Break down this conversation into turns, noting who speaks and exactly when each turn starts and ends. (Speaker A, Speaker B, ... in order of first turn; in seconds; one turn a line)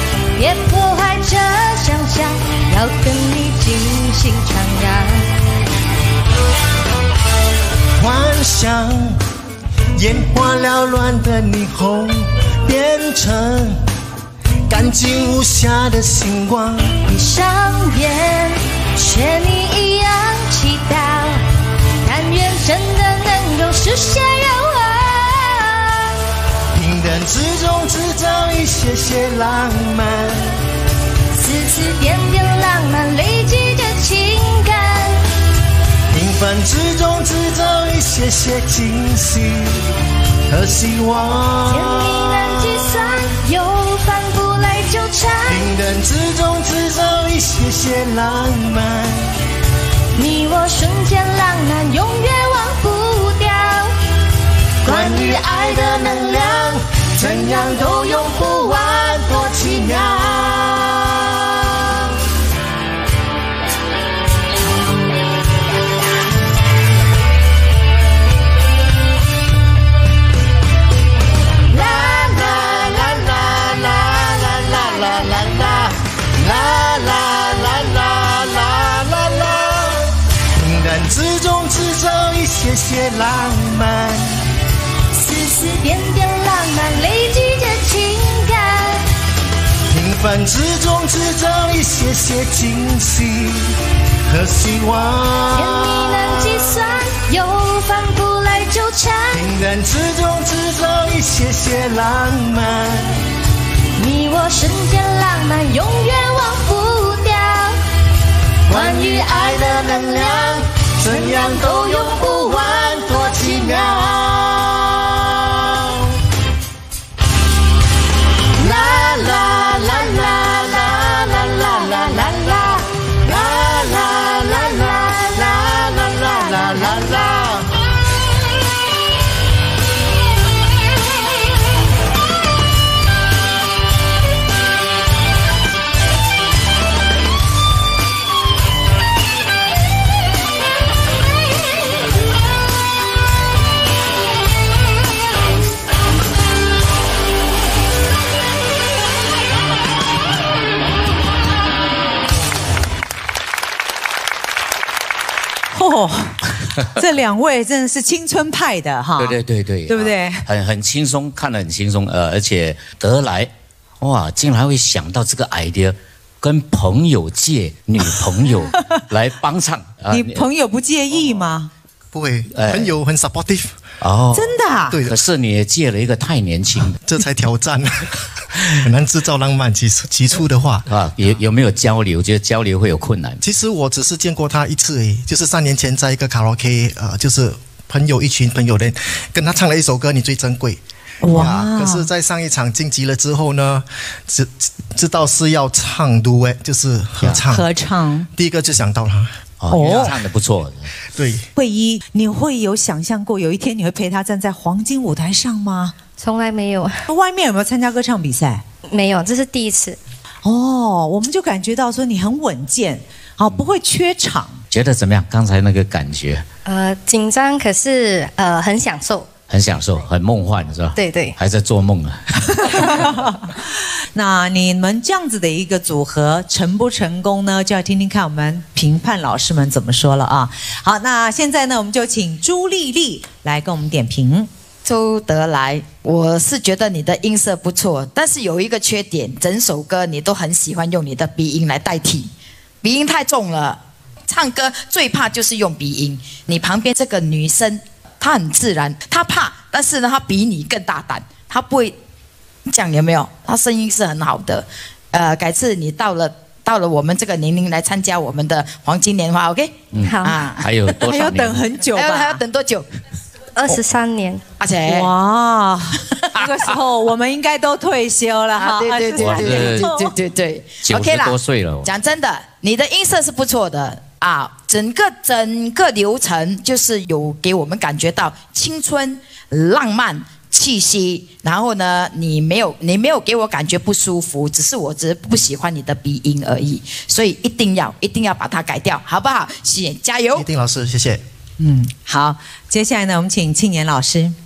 Speaker A: 0.4-5.3
Speaker B: 8.0-9.2
Speaker B: 10.0-13.8
Speaker B: 14.7-16.9
Speaker A: 17.1-21.4
Speaker A: 22.0-26.1
Speaker B: 26.7-30.5
Speaker A: 31.3-35.2
Speaker B: 36.1-39.8
Speaker B: 40.5-42.6
Speaker A: 41.7-45.7
Speaker B: 45.5-49.3
Speaker A: 50.1-54.0
Speaker A: 54.8-59.8
Speaker B: 54.9-58.3
Speaker B: 59.0-60.7
Speaker A: 71.7-72.3
Speaker B: 71.7-75.9
Speaker A: 75.0-75.4
Speaker B: 76.4-79.9
Speaker B: 80.6-84.3
Speaker A: 85.1-89.0
Speaker B: 89.9-93.7
Speaker B: 94.2-96.4
Speaker A: 95.5-99.5
Speaker B: 99.3-103.2
Speaker A: 104.0-107.8
Speaker A: 108.7-114.0
Speaker B: 108.7-114.8
Speaker B: 118.6-122.0
Speaker A: 121.0-122.9
Speaker B: 123.2-127.6
Speaker A: 124.1-127.2
Speaker C: 155.7-159.4
Speaker D: 159.2-170.4
Speaker C: 159.9-160.4
Speaker C: 170.1-171.7
Speaker E: 172.1-173.7
Speaker D: 172.5-172.9
Speaker D: 174.0-176.9
Speaker C: 174.3-175.0
Speaker E: 177.0-180.9
Speaker D: 180.9-183.4
Speaker E: 183.4-190.8
Speaker C: 191.2-192.1
Speaker E: 191.3-197.7
Speaker C: 197.4-198.3
Speaker E: 198.4-199.3
Speaker D: 199.6-200.9
Speaker C: 199.7-200.1
Speaker E: 201.1-201.4
Speaker C: 201.6-206.0
Speaker F: 206.2-207.0
Speaker C: 207.1-208.6
Speaker F: 208.9-210.0
Speaker C: 210.4-214.6
Speaker D: 214.7-216.4
Speaker F: 216.7-219.3
Speaker D: 219.5-222.3
Speaker F: 220.9-221.4
Speaker C: 222.6-223.5
Speaker C: 224.1-234.5
Speaker G: 234.8-242.3
Speaker G: 242.8-251.9
Speaker G: 252.7-260.6
Speaker D: 259.9-261.6
Speaker F: 260.0-260.5
Speaker C: 260.9-262.4
Speaker G: 261.9-262.9
Speaker F: 263.5-264.4
Speaker G: 264.6-265.1
Speaker C: 264.9-270.1
Speaker G: 268.6-290.4
Speaker D: 269.2-269.9
Speaker D: 270.8-271.9
Speaker E: 290.4-291.2
Speaker C: 291.6-294.4